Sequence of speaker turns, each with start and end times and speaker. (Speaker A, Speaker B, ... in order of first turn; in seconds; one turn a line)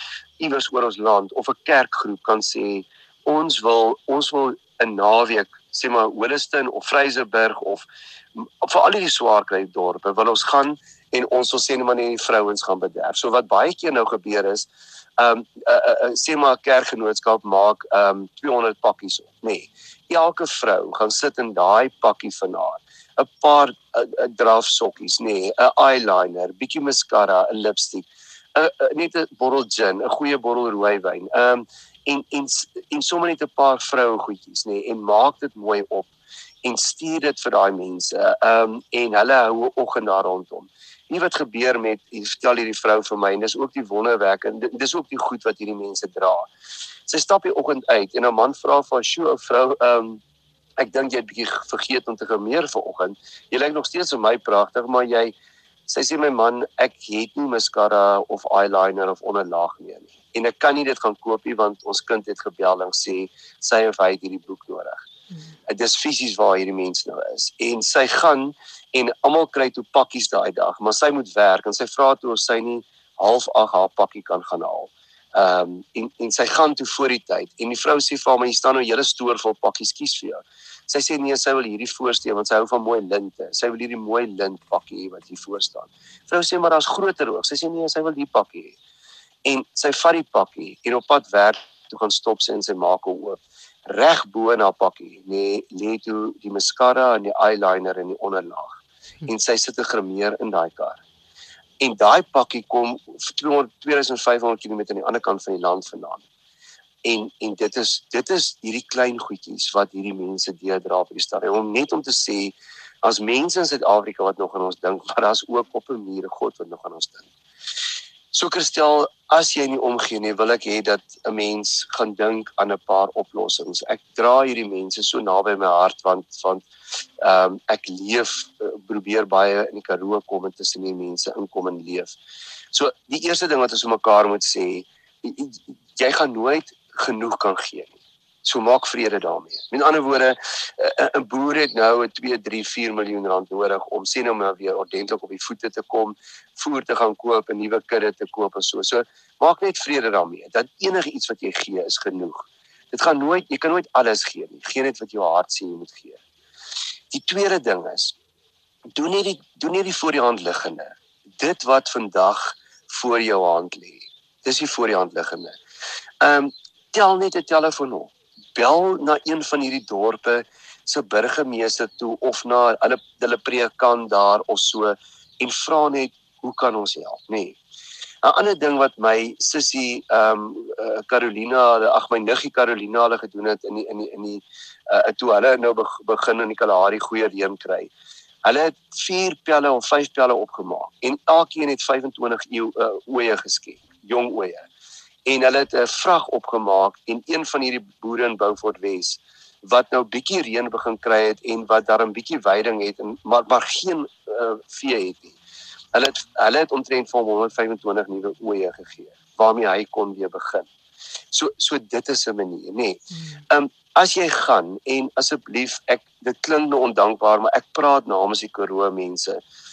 Speaker A: 0.4-36.1
Speaker A: 36.6-46.5
Speaker A: 47.1-50.2
Speaker A: 50.8-55.3
Speaker A: 55.9-65.0
Speaker A: 65.7-88.8
Speaker A: 89.4-101.0
Speaker A: 101.8-106.2
Speaker A: 107.0-117.3
Speaker A: 118.3-126.7
Speaker A: 127.2-132.2
Speaker A: 132.7-156.2
Speaker A: 157.1-158.1
Speaker A: 158.9-165.6
Speaker A: 166.2-177.6
Speaker A: 178.2-187.9
Speaker A: 188.4-194.7
Speaker A: 195.2-205.4
Speaker A: 205.9-210.7
Speaker A: 211.3-219.4